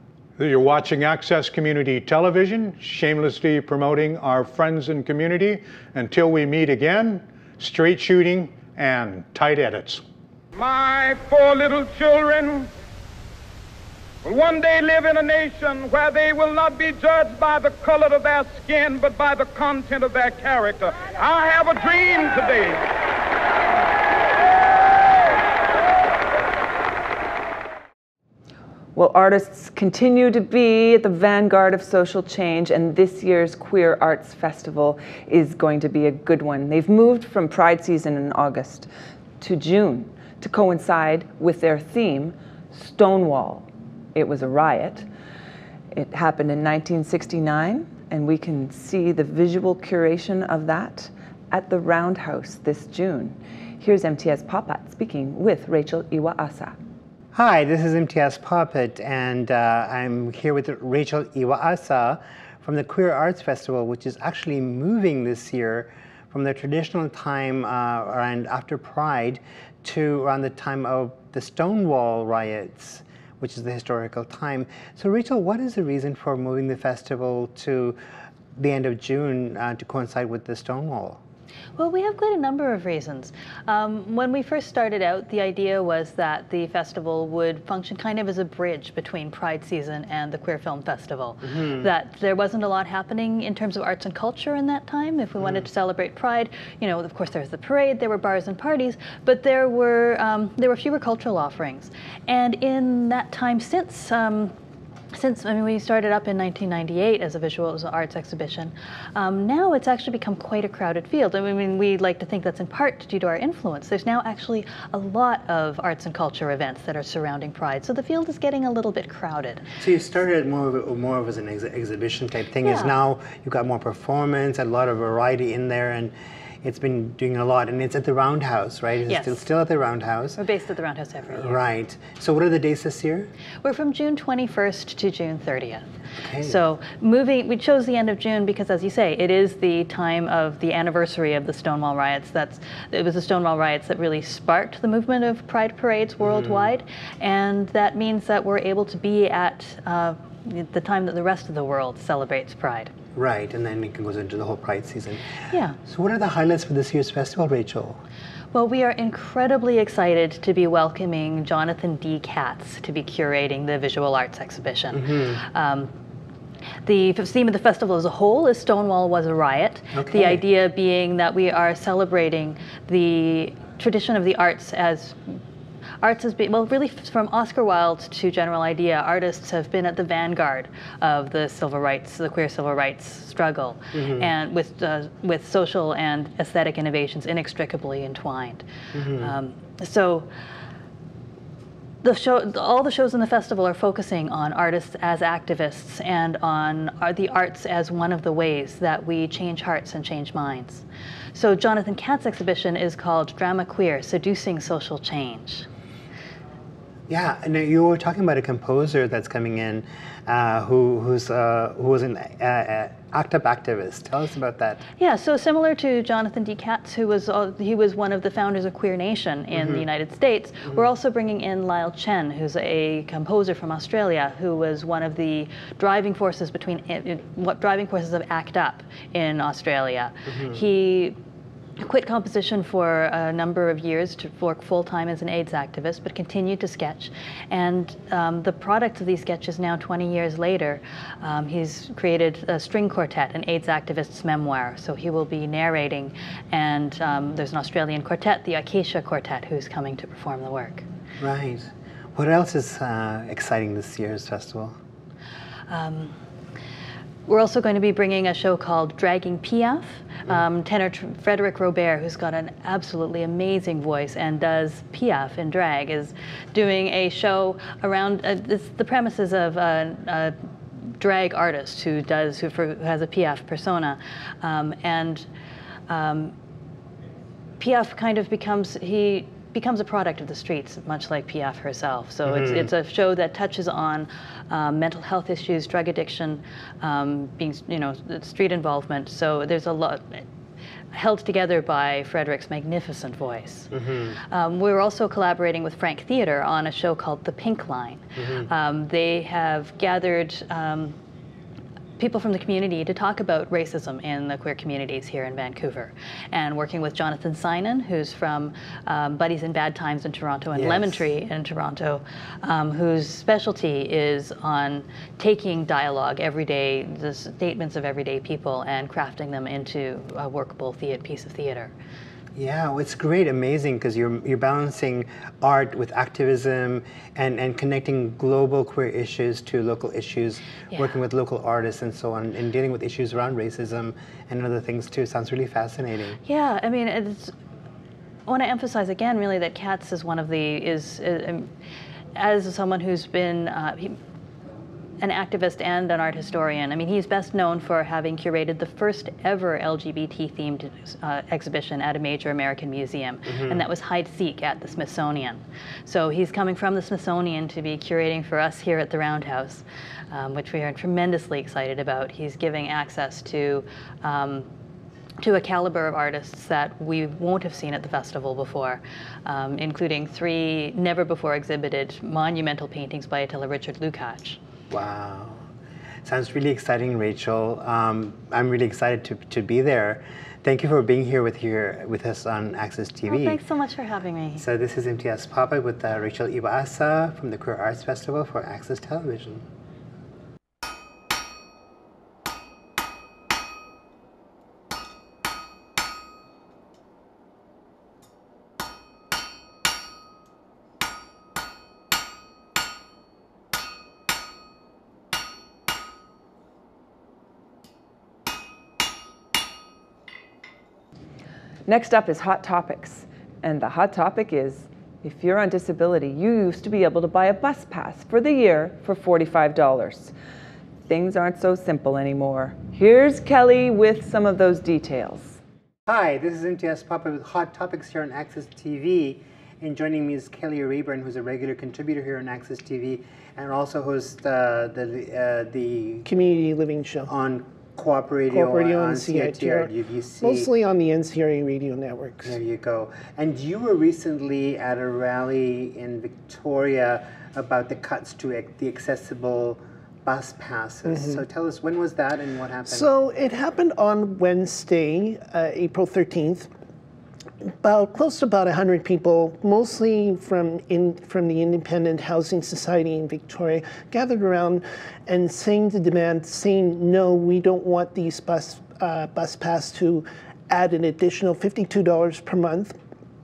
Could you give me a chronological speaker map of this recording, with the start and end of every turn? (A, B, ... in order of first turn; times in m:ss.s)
0:00.4-0:10.0 A
0:10.6-0:12.7 B
0:14.2-0:22.8 B
0:28.9-0:38.9 C
0:39.4-0:45.1 C
0:45.9-0:56.8 C
0:57.3-1:18.0 D
1:18.6-1:21.2 D
1:21.8-1:44.5 E
1:31.5-1:31.9 D
1:45.1-1:59.6 E
1:59.8-2:10.4 D
2:02.6-2:03.0 E
2:09.0-2:09.5 E
2:10.4-2:11.6 E
2:11.3-2:13.3 D
2:13.6-2:15.8 E
2:16.2-2:16.6 D
2:16.4-2:32.9 E
2:26.2-2:26.7 D
2:33.1-2:38.0 D
2:35.5-2:35.8 E
2:38.5-2:45.9 E
2:44.9-2:45.4 D
2:46.8-2:55.4 E
2:49.9-2:50.4 D
2:56.0-3:10.3 E
3:03.9-3:04.3 D
3:08.9-3:09.4 D
3:12.0-3:25.6 E
3:27.1-3:34.8 D
3:35.0-3:51.2 E
3:39.5-3:39.9 D
3:51.8-4:10.8 E
4:11.2-4:14.8 D
4:15.7-4:16.1 E
4:17.2-4:30.3 E
4:31.0-4:35.3 E
4:35.9-4:36.3 E
4:37.6-4:50.2 E
4:42.2-4:42.7 D
4:50.9-4:53.7 E
4:53.7-4:54.2 D
4:54.3-5:01.0 E
4:58.2-4:58.5 D
5:02.0-5:21.7 E
5:10.5-5:11.0 D
5:22.3-5:36.2 D
5:36.2-5:37.3 E
5:38.3-5:41.5 E
5:42.2-5:44.0 E
5:45.0-6:04.5 E
5:53.2-5:53.6 D
6:05.2-6:14.4 E
6:14.7-6:15.4 D
6:16.0-6:23.4 D
6:23.0-6:24.4 E
6:24.4-6:29.4 D
6:51.6-7:00.1 C
7:00.9-7:05.4 C
7:05.9-7:16.1 D
7:16.0-7:17.1 F
7:17.1-7:20.5 D
7:18.3-7:22.4 F
7:22.2-7:32.9 D
7:30.9-7:31.2 F
7:32.6-7:36.5 F
7:37.6-7:52.8 F